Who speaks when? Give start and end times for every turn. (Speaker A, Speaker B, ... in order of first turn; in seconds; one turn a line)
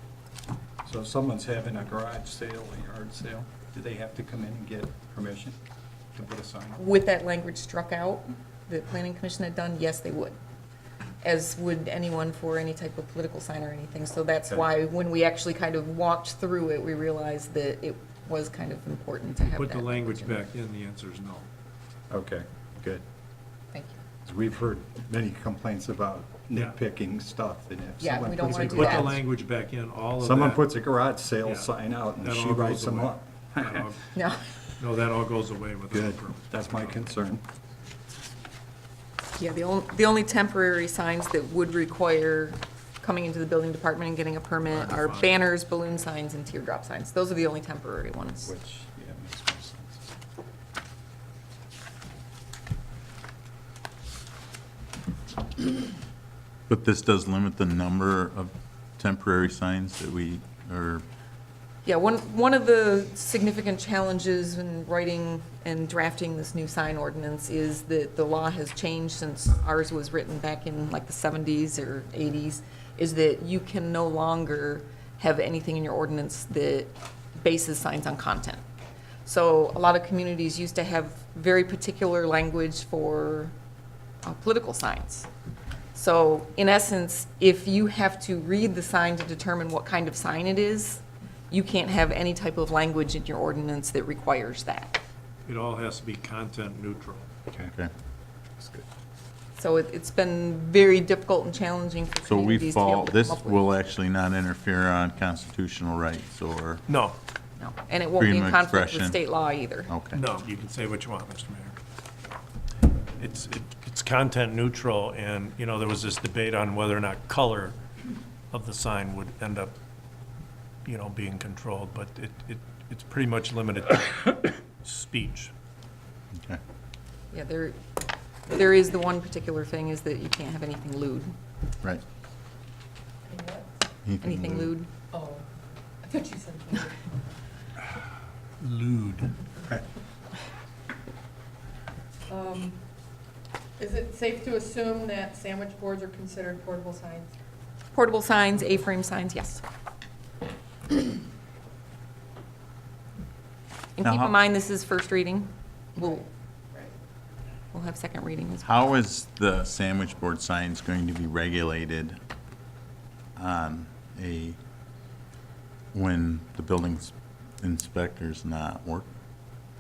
Speaker A: 0.8-5.6
Speaker A: 6.2-6.8
Speaker B: 6.8-10.4
Speaker B: 11.2-20.4
Speaker C: 19.4-21.5
Speaker A: 22.1-23.0
Speaker B: 23.7-24.0
Speaker A: 24.2-29.2
Speaker B: 28.0-29.2
Speaker C: 28.4-30.8
Speaker A: 30.2-33.9
Speaker C: 31.4-34.0
Speaker B: 34.1-34.4
Speaker C: 34.8-37.1
Speaker A: 35.9-37.4
Speaker B: 39.4-48.5
Speaker C: 44.7-45.4
Speaker A: 48.5-50.1
Speaker D: 56.7-61.0
Speaker B: 61.9-78.6
Speaker B: 79.2-83.5
Speaker B: 84.2-85.3
Speaker B: 85.9-95.0
Speaker C: 95.5-97.3
Speaker A: 98.6-98.8
Speaker B: 99.6-103.7
Speaker D: 102.3-106.8
Speaker C: 106.9-107.2
Speaker B: 107.6-109.9
Speaker D: 108.2-109.2
Speaker D: 109.9-110.2
Speaker C: 110.1-111.8
Speaker C: 113.2-117.8
Speaker C: 118.5-119.7
Speaker C: 120.8-125.5
Speaker B: 127.3-127.8
Speaker B: 128.5-131.3
Speaker E: 133.3-133.8
Speaker D: 134.1-134.7
Speaker B: 134.2-134.9
Speaker E: 135.1-137.1
Speaker C: 138.6-139.3
Speaker E: 142.3-142.8
Speaker E: 143.8-147.3
Speaker B: 147.9-149.6
Speaker B: 154.0-156.2
Speaker D: 154.0-154.3
Speaker E: 156.0-157.0
Speaker B: 157.7-158.7
Speaker D: 158.7-162.2
Speaker D: 163.4-164.6
Speaker D: 165.9-169.1